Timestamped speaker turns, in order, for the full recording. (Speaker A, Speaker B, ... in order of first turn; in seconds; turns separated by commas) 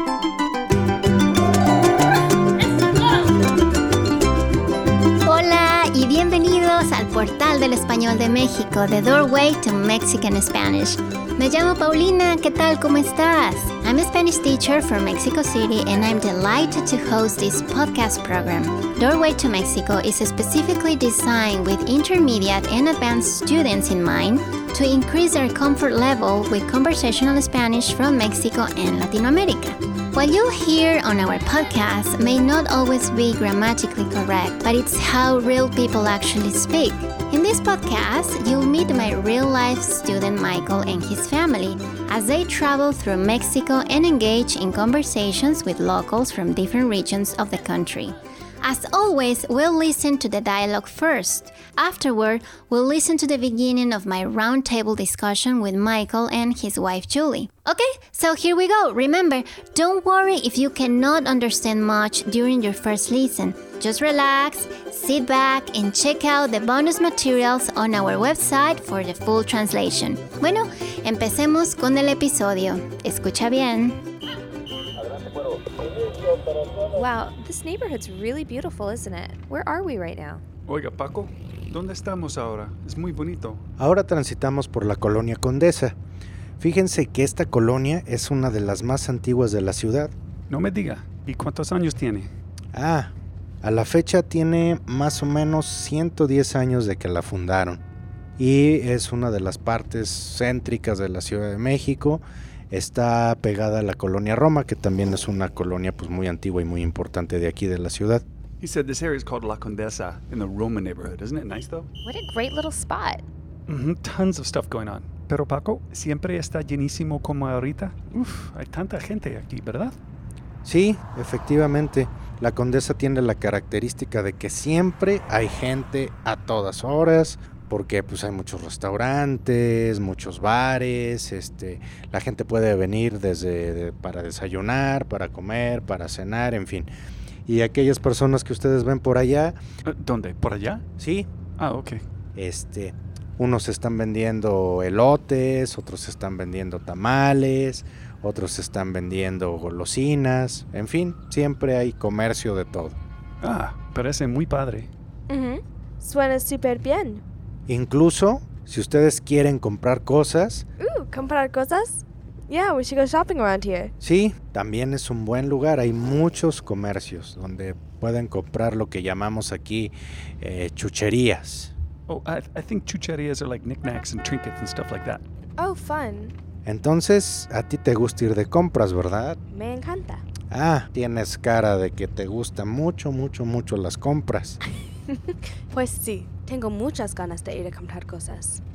Speaker A: 5.2-74.0, Speaker B: 76.9-80.4, Speaker C: 80.7-83.6, Speaker D: 83.8-86.0, Speaker D: 86.6-90.1, Speaker C: 90.5-92.3, Speaker D: 92.7-97.8, Speaker D: 98.4-108.2, Speaker C: 108.6-111.9, Speaker B: 112.0-113.2, Speaker C: 113.7-120.0, Speaker D: 120.7-136.9, Speaker D: 137.5-139.6, Speaker C: 139.8-140.8, Speaker D: 141.0-141.3, Speaker C: 141.6-142.0, Speaker D: 142.3-153.0, Speaker C: 153.4-154.9, Speaker E: 155.3-157.2, Speaker D: 157.7-160.7, Speaker E: 160.8-163.9, Speaker D: 164.0-171.7, Speaker C: 172.1-175.2, Speaker E: 175.6-176.3, Speaker D: 176.7-179.4, Speaker E: 179.5-180.2, Speaker D: 180.5-184.6, Speaker E: 185.1-188.6